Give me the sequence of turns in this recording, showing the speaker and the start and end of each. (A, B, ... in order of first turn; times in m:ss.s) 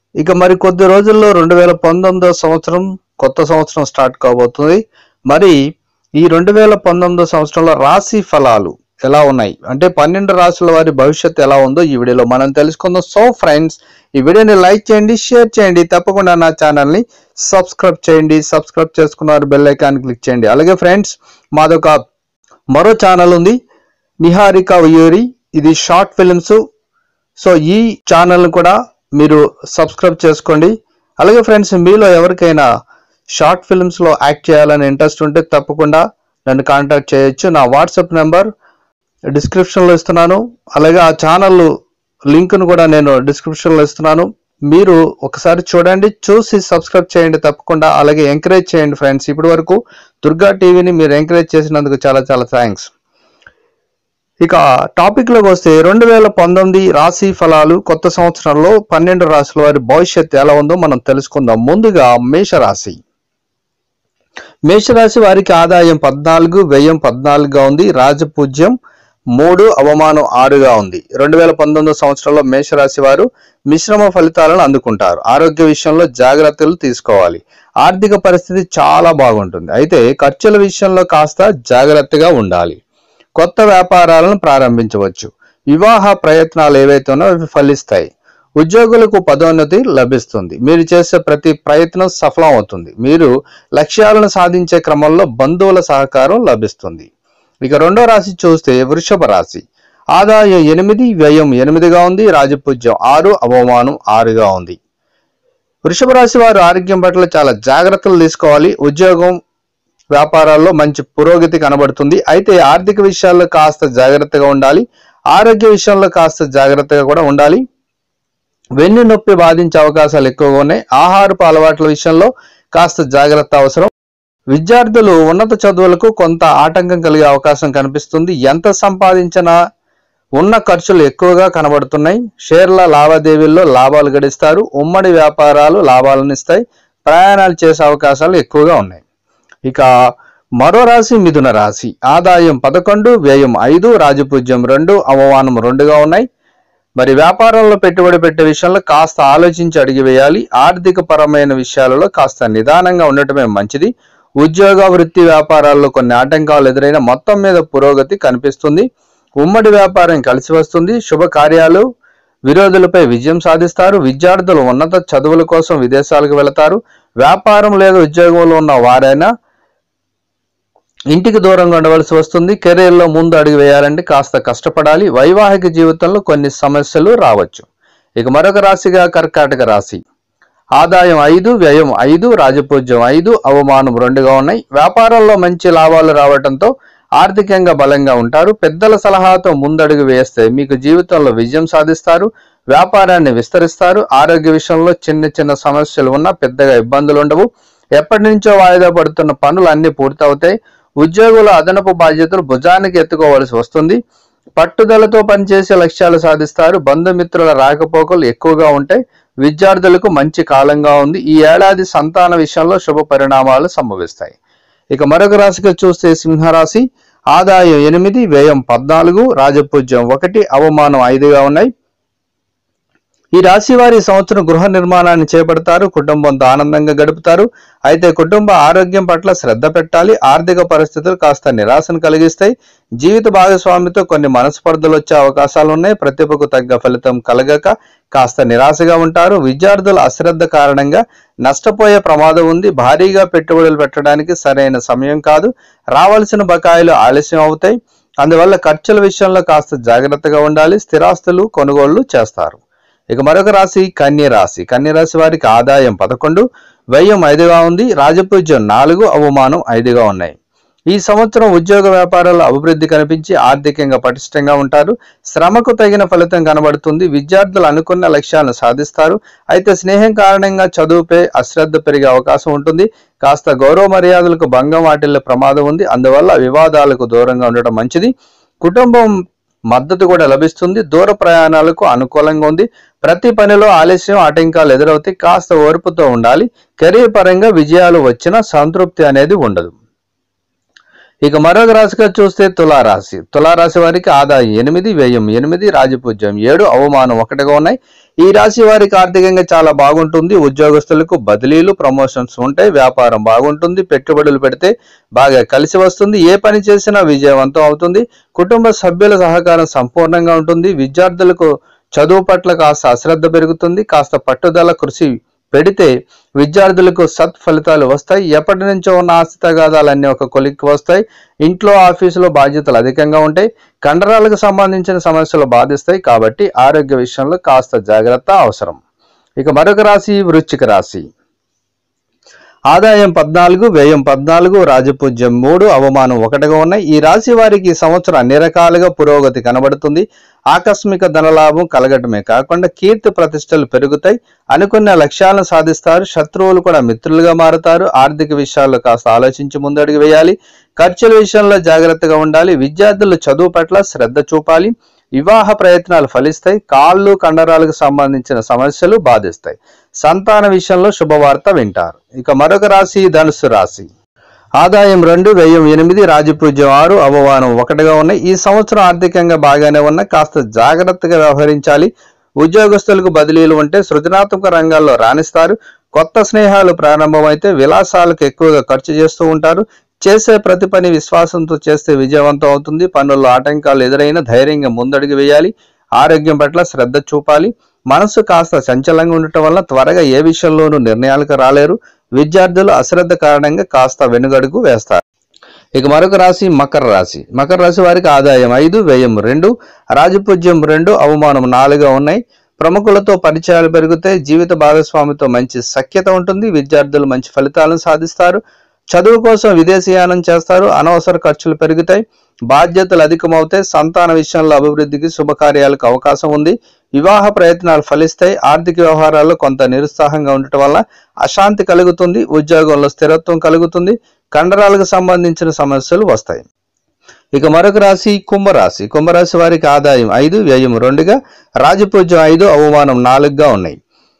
0:00.2-0:05.6 A
0:06.2-0:22.0 A
0:22.7-0:23.6 A
0:24.2-0:26.6 A
0:27.4-0:32.6 A
0:33.4-0:38.5 A
0:39.3-0:41.7 A
0:42.3-0:52.9 A
0:54.4-1:03.0 A
1:04.7-1:08.7 A
1:09.4-1:22.8 A
1:23.4-1:28.1 A
1:28.6-1:37.1 A
1:37.6-1:39.6 A
1:40.2-1:44.8 A
1:45.9-1:49.4 A
1:50.1-1:57.6 A
1:58.8-2:03.9 A
2:04.5-2:09.5 A
2:10.4-2:19.0 A
2:19.6-2:19.9 A
2:20.6-2:26.2 A
2:27.0-2:33.9 A
2:34.4-2:38.8 A
2:39.4-2:41.8 A
2:42.5-2:49.3 A
2:51.1-2:57.7 A
2:58.2-3:00.0 A
3:00.8-3:17.5 A
3:18.0-3:24.0 A
3:24.6-3:34.4 A
3:34.9-3:41.7 A
3:43.3-4:12.6 A
4:13.1-4:16.4 A
4:16.9-4:20.3 A
4:20.9-4:38.1 A
4:38.6-4:39.1 A
4:39.7-4:49.7 A
4:51.2-5:28.8 A
5:29.4-5:31.0 A
5:32.7-6:03.9 A
6:04.6-6:11.9 A
6:12.4-6:35.0 A
6:35.8-6:48.4 A
6:48.9-7:06.4 A
7:07.3-7:13.8 A